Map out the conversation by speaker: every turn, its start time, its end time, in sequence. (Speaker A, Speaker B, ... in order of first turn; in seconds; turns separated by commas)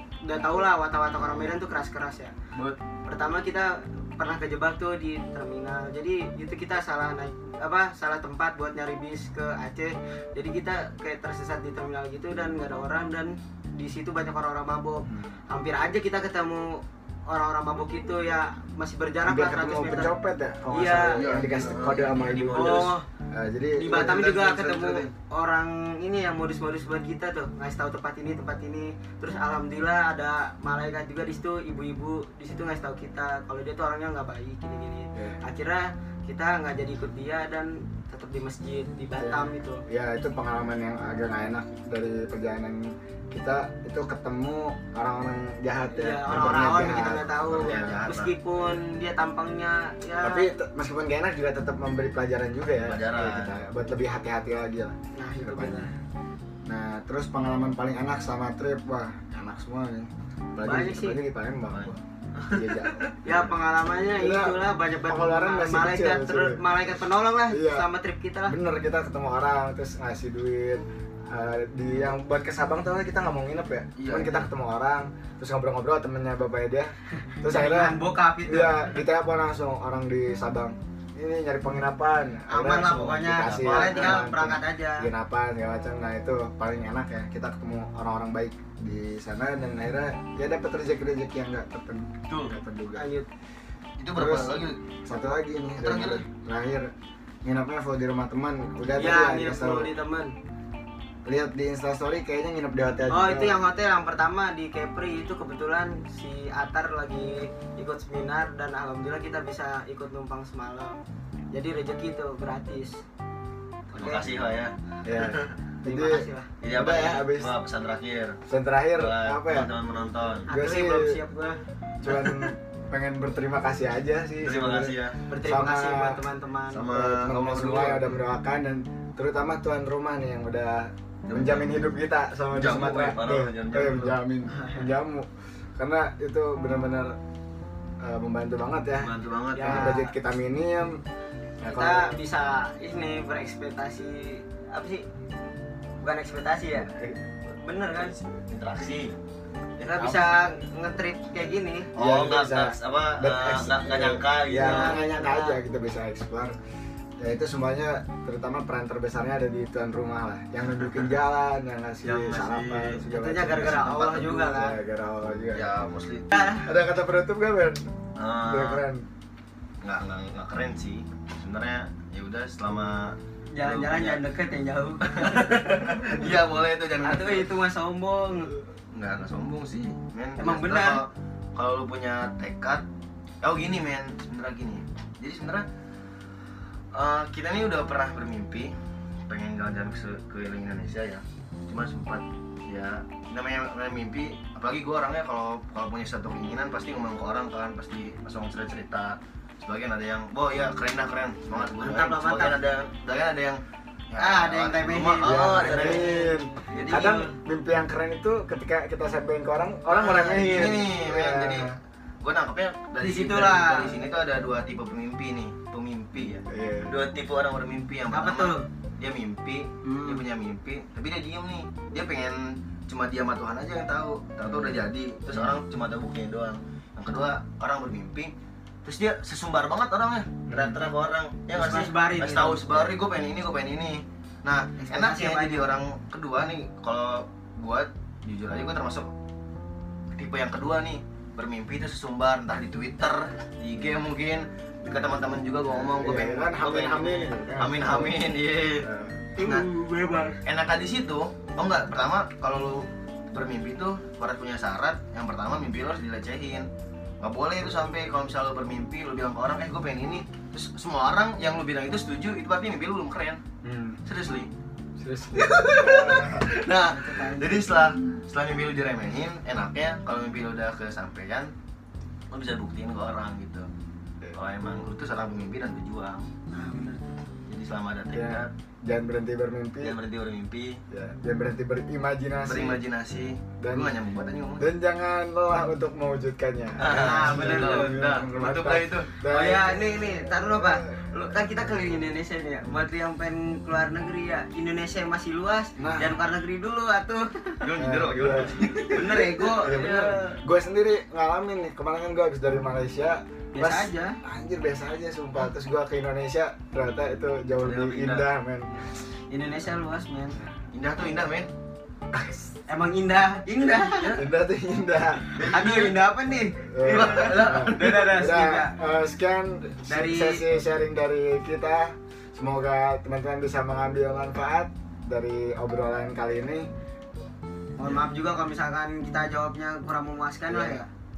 Speaker A: 0.2-2.3, Speaker A: 3.1-20.1, Speaker B: 15.1-15.4, Speaker B: 19.2-25.1, Speaker A: 20.7-21.2, Speaker C: 21.2-22.9, Speaker A: 22.5-23.1, Speaker A: 23.8-39.8, Speaker B: 35.1-35.4, Speaker B: 39.2-48.1, Speaker A: 45.9-50.5, Speaker C: 47.5-48.3, Speaker B: 50.2-55.9, Speaker C: 52.8-53.6, Speaker A: 55.1-55.9, Speaker B: 56.7-63.1, Speaker A: 60.6-61.2, Speaker C: 61.7-63.1, Speaker A: 63.2-68.6, Speaker B: 64.1-66.8, Speaker B: 67.5-67.9, Speaker B: 68.5-93.1, Speaker C: 74.0-74.5, Speaker A: 77.4-78.9, Speaker A: 82.5-85.1, Speaker C: 82.8-84.2, Speaker C: 92.3-92.6, Speaker A: 93.0-93.3, Speaker C: 94.0-94.8, Speaker B: 94.2-96.9, Speaker C: 95.8-96.2, Speaker B: 97.4-99.9, Speaker A: 99.0-100.3, Speaker B: 101.3-103.6, Speaker A: 103.1-111.0, Speaker A: 111.5-113.0, Speaker C: 113.9-115.5, Speaker A: 113.9-114.3, Speaker B: 115.0-117.5, Speaker A: 115.8-116.5, Speaker C: 116.6-118.4, Speaker B: 118.5-119.7, Speaker C: 119.0-120.5, Speaker A: 120.5-121.6, Speaker B: 120.5-121.2, Speaker B: 122.0-126.2, Speaker C: 122.1-122.5, Speaker C: 124.4-125.2, Speaker A: 125.3-127.0, Speaker C: 126.7-128.2, Speaker B: 126.9-137.2, Speaker C: 131.2-131.9, Speaker C: 132.5-134.2, Speaker A: 134.5-134.9, Speaker B: 138.0-141.0, Speaker C: 139.0-140.0, Speaker A: 139.5-140.1, Speaker B: 141.6-142.1, Speaker A: 141.7-145.1, Speaker A: 146.0-146.9, Speaker B: 146.8-147.2, Speaker A: 147.6-148.2, Speaker C: 147.9-149.1, Speaker C: 149.8-150.2, Speaker A: 149.9-151.9, Speaker B: 150.0-150.4, Speaker C: 151.9-155.0, Speaker B: 151.9-156.6, Speaker A: 154.5-155.6, Speaker B: 157.2-165.7, Speaker C: 160.8-161.1, Speaker C: 162.0-163.0, Speaker A: 163.1-164.8, Speaker C: 165.5-166.5, Speaker A: 166.3-166.7, Speaker B: 166.6-167.8, Speaker C: 168.2-168.8, Speaker B: 168.5-169.1, Speaker C: 169.8-174.2, Speaker A: 173.5-175.6, Speaker C: 175.0-177.5, Speaker A: 177.0-178.6, Speaker C: 178.9-182.8, Speaker A: 180.4-181.0, Speaker C: 183.4-185.7, Speaker C: 186.9-188.7, Speaker C: 189.3-206.1, Speaker A: 201.8-202.6, Speaker A: 204.2-207.3, Speaker B: 205.2-211.8, Speaker C: 206.7-207.2, Speaker C: 209.9-211.7, Speaker C: 212.2-228.3, Speaker A: 213.0-214.0, Speaker B: 216.5-217.0, Speaker A: 218.1-218.7, Speaker A: 219.8-220.2, Speaker C: 228.8-239.1, Speaker B: 230.5-230.8, Speaker A: 231.5-232.9, Speaker A: 234.8-235.7, Speaker C: 240.2-249.7, Speaker B: 245.7-248.2, Speaker B: 248.8-249.3, Speaker A: 249.4-250.4, Speaker C: 250.4-256.7, Speaker C: 257.2-263.4, Speaker B: 263.6-264.0, Speaker C: 264.1-264.5, Speaker B: 265.0-266.5, Speaker C: 265.3-271.5, Speaker A: 266.8-267.9, Speaker C: 272.3-273.7, Speaker C: 274.3-276.3, Speaker A: 276.5-277.2, Speaker C: 277.5-278.5, Speaker B: 278.1-280.0, Speaker C: 279.8-280.8, Speaker B: 280.9-282.8, Speaker C: 282.5-284.6, Speaker B: 283.6-283.9, Speaker B: 284.6-291.1, Speaker C: 286.8-289.1, Speaker A: 286.9-288.0, Speaker A: 289.2-297.7, Speaker B: 295.8-296.2, Speaker C: 297.6-299.4, Speaker B: 297.8-298.6, Speaker A: 298.9-300.4, Speaker B: 299.6-308.7, Speaker A: 303.5-304.2, Speaker C: 307.6-308.3, Speaker A: 309.3-310.4, Speaker C: 310.7-311.5, Speaker B: 312.1-312.5, Speaker A: 312.7-314.2, Speaker C: 313.9-314.2, Speaker B: 314.1-315.4, Speaker C: 315.4-315.9, Speaker A: 315.4-318.7, Speaker B: 316.6-326.7, Speaker C: 316.8-318.0, Speaker A: 319.9-320.4, Speaker A: 327.8-330.9, Speaker B: 330.5-330.8